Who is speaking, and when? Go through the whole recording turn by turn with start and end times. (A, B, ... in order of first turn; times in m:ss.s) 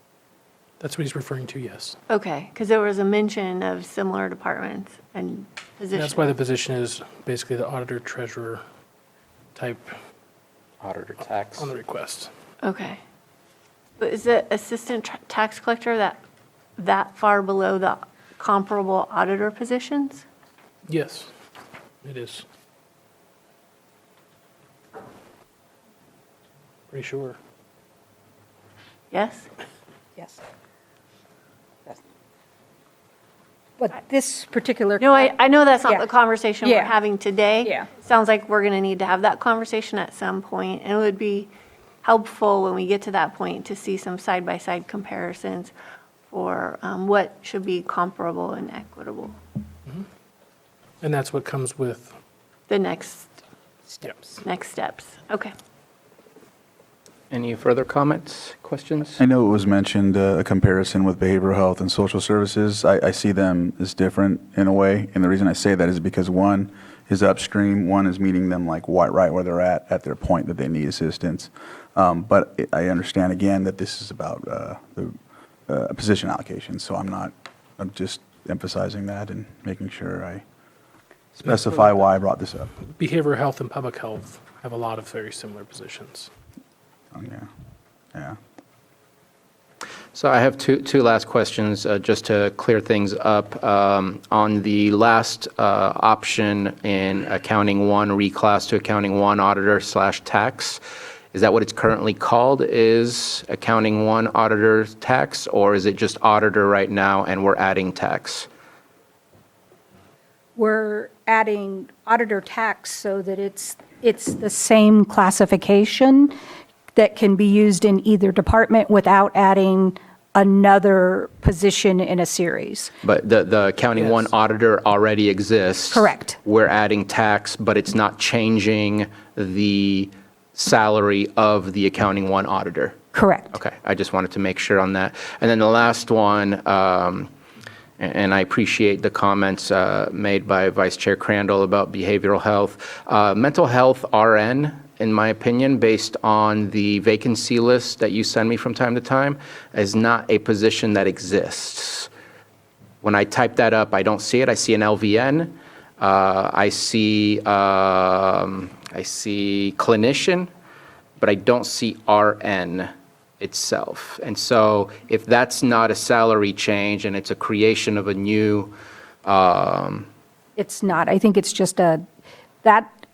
0:00.8-0:02.0 A
0:02.1-0:06.3 B
0:05.9-0:08.6 A
0:09.6-0:09.9 A
0:10.8-0:11.7 C
0:11.6-0:12.3 A
0:12.6-0:13.0 B
0:14.0-0:16.2 B
0:16.8-0:20.2 B
0:20.9-0:21.3 A
0:22.0-0:22.4 A
0:26.9-0:27.4 A
0:29.1-0:29.5 B
0:33.8-0:36.0 D
0:35.0-0:41.5 B
0:36.6-0:36.9 D
0:42.0-0:45.7 B
0:46.3-0:49.4 B
0:51.0-0:52.1 A
0:52.7-0:53.3 B
0:54.0-0:54.4 A
0:54.4-0:55.5 B
0:57.3-0:59.2 C
0:59.2-1:15.2 E
1:15.7-1:20.4 E
1:21.4-1:22.7 E
1:21.4-1:22.0 A
1:23.0-1:26.3 A
1:27.1-1:27.5 E
1:30.2-1:40.8 C
1:41.3-1:48.5 C
1:50.6-1:56.4 D
1:57.0-2:02.9 D
2:03.0-2:12.9 C
2:04.0-2:04.3 A
2:05.9-2:06.4 D
2:13.1-2:13.5 D
2:13.5-2:17.3 C
2:18.0-2:32.1 C
2:33.0-2:40.5 C
2:41.2-2:42.9 C
2:43.4-2:48.7 C
2:49.2-2:50.1 C
2:50.6-2:52.0 D
2:52.6-2:52.9 D